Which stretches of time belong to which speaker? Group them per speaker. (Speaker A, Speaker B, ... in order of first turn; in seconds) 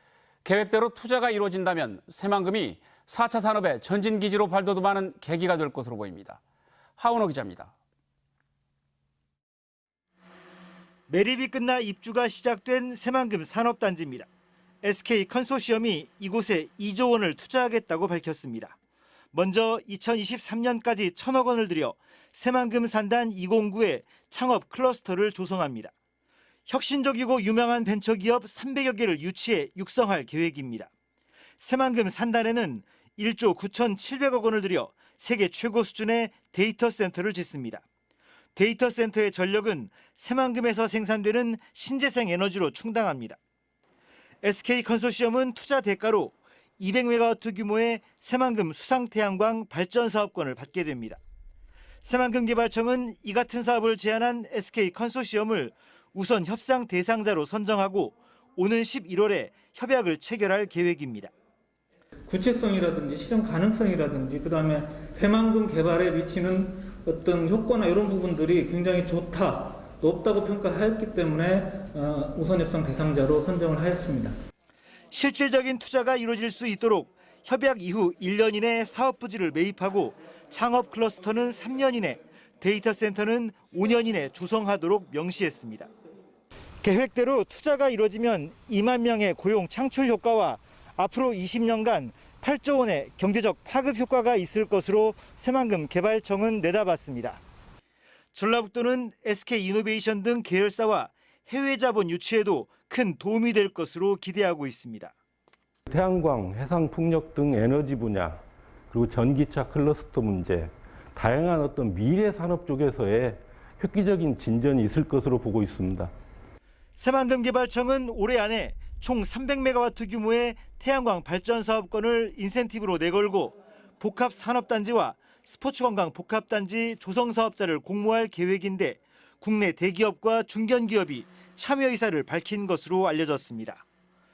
Speaker A: 0.4-6.4, 7.0-7.7
Speaker B: 11.1-14.3, 14.8-18.7, 19.3-25.9, 26.7-30.9, 31.6-37.8, 38.5-43.4, 44.4-51.2, 52.0-61.3, 75.1-85.9, 86.8-97.4, 98.3-105.1, 117.0-133.8
Speaker C: 62.3-74.3
Speaker D: 105.9-116.1